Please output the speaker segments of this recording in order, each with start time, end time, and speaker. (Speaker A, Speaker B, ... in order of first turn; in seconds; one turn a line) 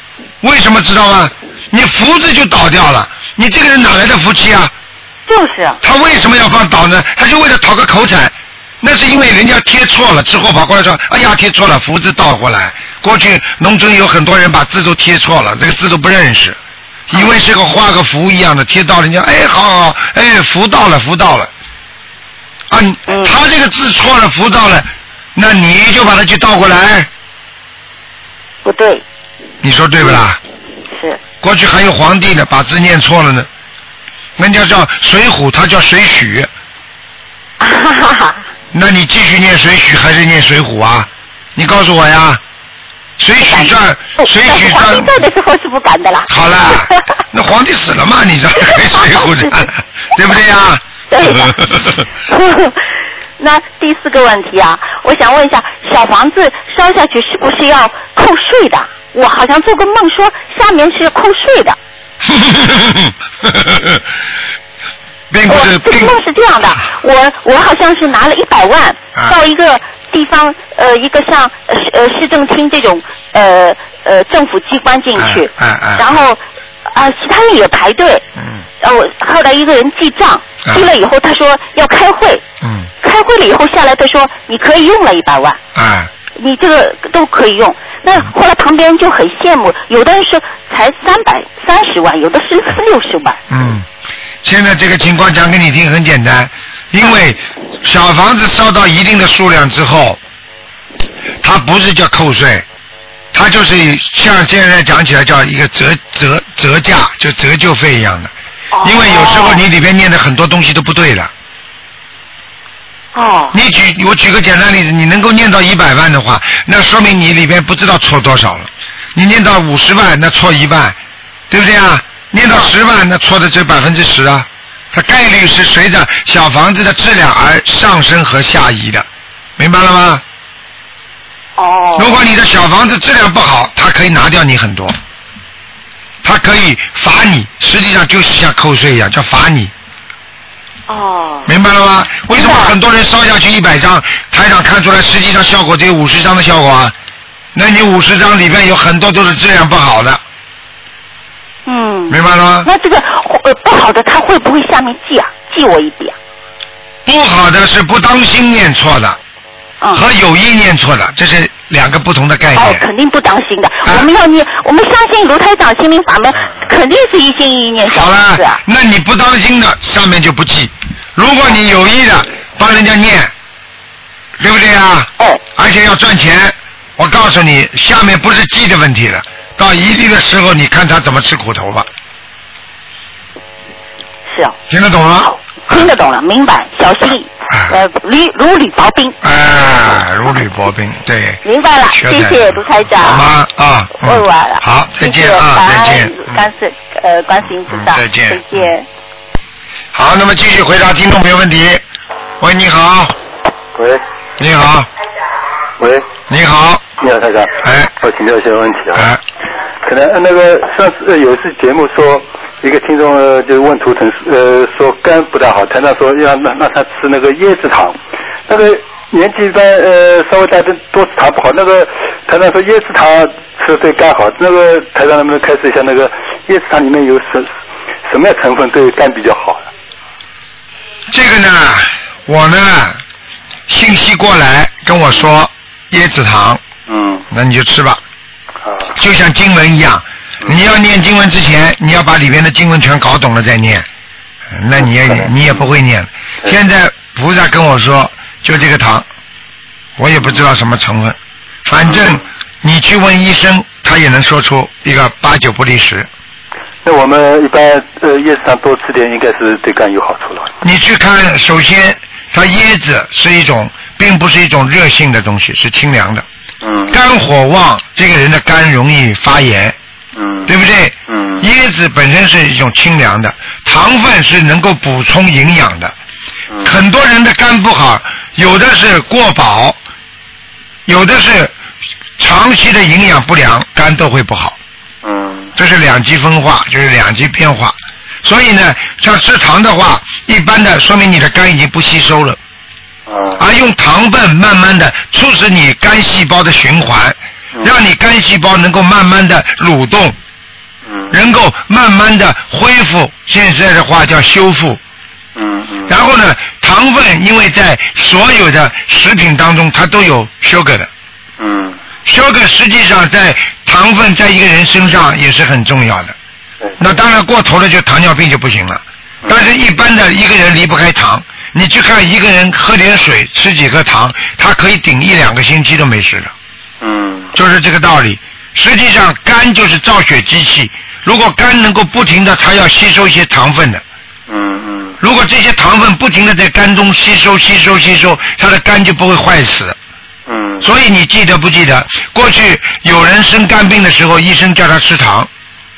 Speaker A: 0.4-4.7
Speaker B: 5.3-5.8
Speaker A: 5.8-16.6
Speaker A: 17.1-21.5
Speaker A: 22.7-27.1
Speaker B: 23.1-23.3
Speaker B: 28.6-29.0
Speaker A: 29.6-30.4
Speaker A: 31.4-33.5
Speaker A: 34.4-36.5
Speaker B: 37.6-38.5
Speaker A: 38.7-42.4
Speaker A: 43.2-45.1
Speaker B: 43.4-47.0
Speaker A: 46.3-51.8
Speaker B: 48.6-49.7
Speaker B: 51.1-52.8
Speaker B: 53.4-61.8
Speaker A: 62.3-64.0
Speaker A: 65.3-66.2
Speaker B: 65.5-78.2
Speaker A: 75.2-76.2
Speaker A: 78.4-78.7
Speaker B: 78.8-82.4
Speaker A: 82.6-82.9
Speaker B: 83.0-85.6
Speaker A: 85.8-86.1
Speaker B: 86.4-93.4
Speaker A: 93.5-93.9
Speaker A: 94.4-100.2
Speaker A: 101.4-102.7
Speaker A: 103.3-111.3
Speaker B: 108.7-109.6
Speaker B: 113.2-113.5
Speaker A: 113.5-121.0
Speaker A: 121.5-129.1
Speaker A: 129.6-130.2
Speaker B: 131.6-132.2
Speaker A: 132.0-135.0
Speaker A: 136.2-139.7
Speaker B: 140.9-141.5
Speaker A: 141.5-146.9
Speaker B: 142.3-142.8
Speaker A: 147.6-150.2
Speaker B: 151.7-156.2
Speaker A: 152.1-152.7
Speaker A: 157.1-159.2
Speaker A: 159.9-162.8
Speaker B: 162.6-168.6
Speaker A: 163.8-164.1
Speaker A: 167.9-173.3
Speaker A: 174.4-181.9
Speaker B: 184.3-184.6
Speaker A: 184.7-185.9
Speaker B: 185.7-189.2
Speaker A: 187.5-187.8
Speaker A: 189.2-196.5
Speaker B: 191.4-193.2
Speaker B: 194.0-198.9
Speaker A: 197.7-198.7
Speaker A: 199.9-201.8
Speaker A: 202.4-203.2
Speaker C: 203.8-204.0
Speaker A: 204.4-204.9
Speaker C: 205.8-206.1
Speaker A: 206.3-206.9
Speaker C: 207.0-209.1
Speaker A: 207.6-207.9
Speaker A: 208.9-209.2
Speaker C: 209.8-227.5
Speaker C: 228.1-229.7
Speaker A: 231.1-233.0
Speaker A: 233.7-236.6
Speaker C: 236.9-237.3
Speaker A: 237.3-238.0
Speaker C: 238.6-239.0
Speaker A: 239.0-243.9
Speaker A: 244.5-249.1
Speaker C: 244.8-245.3
Speaker A: 250.0-256.1
Speaker C: 256.8-260.5
Speaker A: 260.6-266.3
Speaker C: 266.6-267.0
Speaker A: 266.9-269.8
Speaker C: 270.1-270.5
Speaker A: 270.5-275.9
Speaker C: 271.1-271.5
Speaker A: 276.6-279.8
Speaker A: 280.9-281.5
Speaker A: 282.2-284.6
Speaker C: 285.0-285.5
Speaker A: 285.6-292.4
Speaker C: 293.1-293.4
Speaker A: 293.4-300.2
Speaker C: 300.9-301.1
Speaker A: 301.1-304.8
Speaker C: 305.4-305.9
Speaker A: 305.9-310.9
Speaker C: 311.4-311.8
Speaker A: 312.1-316.2
Speaker A: 316.8-326.3
Speaker C: 326.8-327.3
Speaker A: 327.3-333.8
Speaker C: 334.3-335.0
Speaker A: 335.0-339.8
Speaker C: 340.3-340.7
Speaker A: 340.6-345.3